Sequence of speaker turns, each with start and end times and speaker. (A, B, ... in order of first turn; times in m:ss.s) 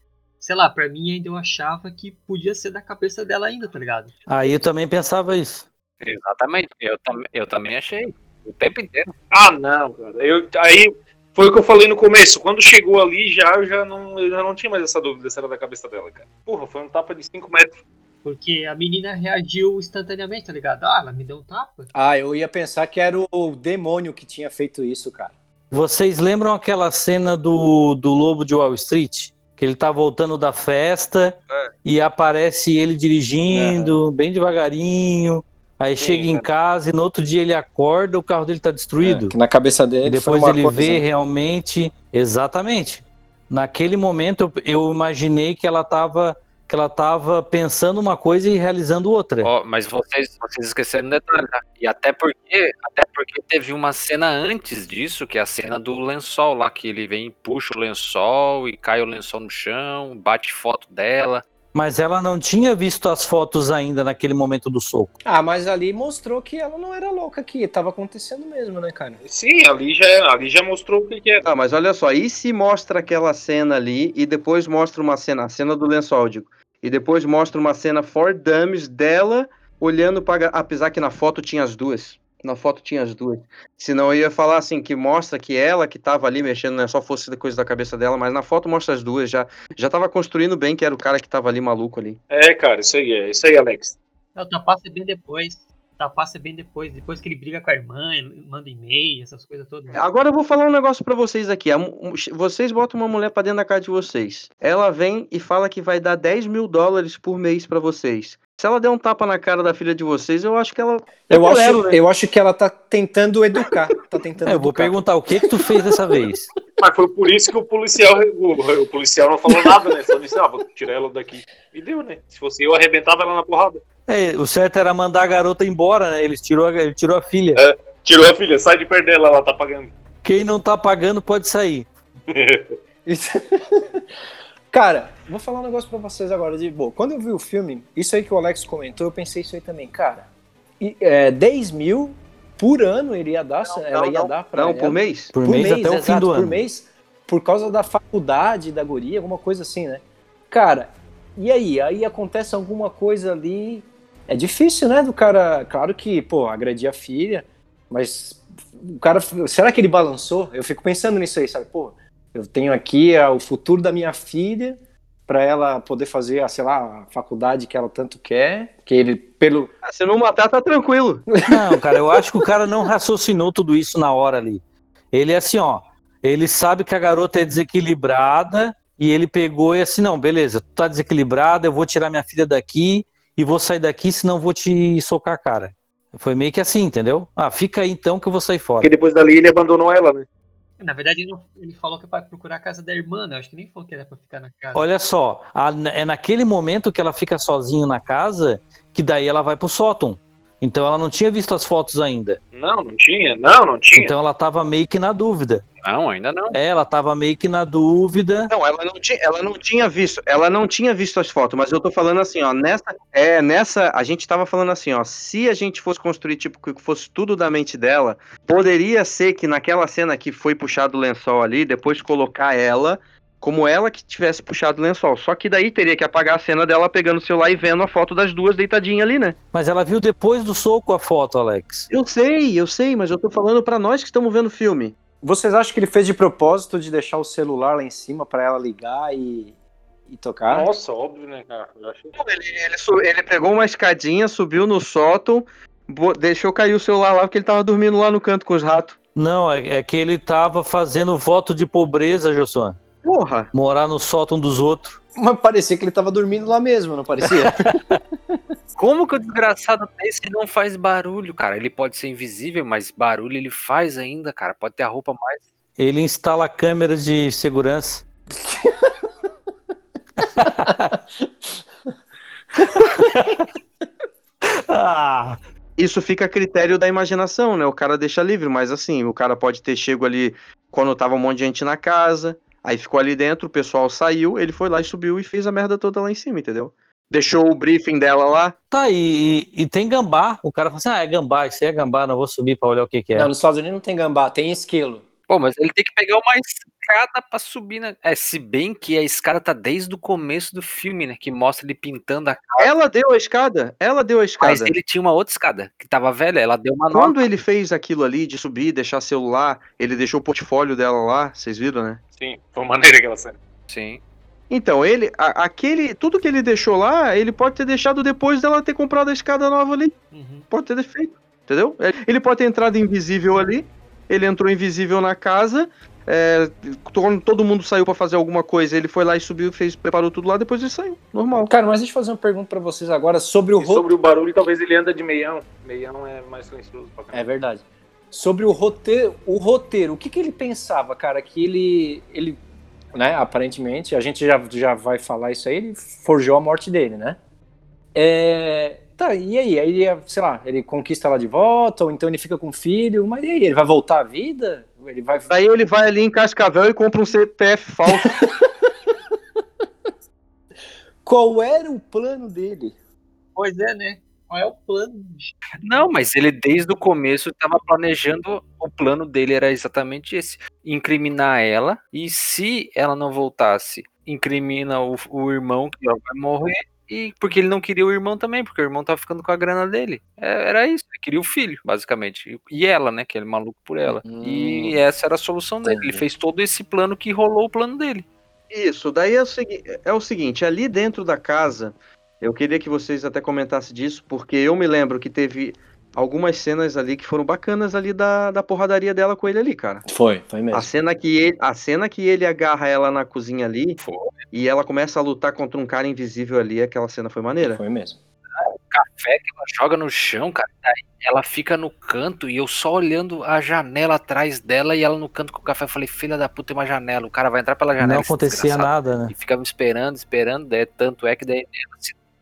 0:00.4-0:04.1 A
0:04.3-0:05.7 B
0:06.0-0:09.1 C
0:09.3-0:17.7 D
0:18.2-0:21.9 A
0:21.9-0:25.3 E
0:25.7-0:39.3 B
0:33.5-0:33.9 E
0:36.0-0:36.5 D
0:39.0-0:41.0 E
0:40.0-0:49.5 B
0:49.4-1:01.4 C
1:01.7-1:05.2 B
1:05.2-1:09.2 E
1:09.2-1:11.4 D
1:11.4-1:32.2 F
1:32.3-1:34.0 D
1:34.4-1:40.0 A
1:39.9-1:52.0 F
1:51.3-1:55.0 E
1:54.4-1:56.5 B
1:56.8-2:03.8 D
2:04.1-2:07.6 B
2:07.6-2:09.9 D
2:10.2-2:11.9 B
2:12.3-2:12.7 D
2:13.0-2:14.0 E
2:14.7-2:20.3 E
2:20.8-2:49.7 E
2:23.7-2:25.3 F
2:25.3-2:26.6 B
2:49.8-2:51.3 F
2:51.3-2:52.4 E
2:51.4-3:08.9 B
3:08.8-3:10.3 D
3:10.8-3:14.8 A
3:14.7-3:22.4 B
3:22.5-3:24.1 D
3:23.9-3:25.6 B
3:25.8-3:26.6 C
3:26.5-3:28.5 B
3:28.5-3:49.4 F
3:49.5-3:51.9 B
3:51.9-3:55.0 F
3:55.2-3:59.5 E
4:00.1-4:00.7 E
4:00.5-4:02.2 D
4:02.2-4:09.0 F
4:09.2-4:12.8 B
4:13.0-4:13.5 F
4:13.5-4:15.0 B
4:15.2-4:17.7 E
4:17.3-4:18.0 B
4:18.8-4:25.4 C
4:25.8-4:28.0 B
4:28.4-4:29.0 E
4:30.2-4:31.0 B
4:32.6-4:33.0 E
4:32.6-4:33.4 B
4:34.4-4:35.4 B
4:35.8-4:48.5 F
4:48.7-4:53.3 B
4:53.1-4:55.0 E
4:55.3-5:02.7 C
5:02.6-5:04.7 F
5:04.4-5:07.2 C
5:06.9-5:12.0 F
5:12.2-5:13.4 D
5:13.7-5:14.0 C
5:14.5-5:20.0 F
5:20.1-5:20.5 A
5:20.5-5:31.5 F
5:31.4-5:33.9 E
5:33.6-5:37.2 D
5:37.1-5:42.4 E
5:42.9-5:47.2 E
5:47.9-5:55.3 E
5:55.3-5:58.2 F
5:57.9-5:58.7 E
6:01.0-6:02.7 E
6:03.4-6:05.3 A
6:05.6-6:28.0 C
6:24.0-6:24.8 E
6:25.6-6:26.0 E
6:28.5-6:39.8 F
6:39.9-6:40.7 E
6:40.5-6:43.8 F
6:43.8-6:44.1 C
6:44.3-6:47.6 F
6:47.4-6:48.0 E
6:48.4-7:01.9 C
6:57.8-6:59.1 B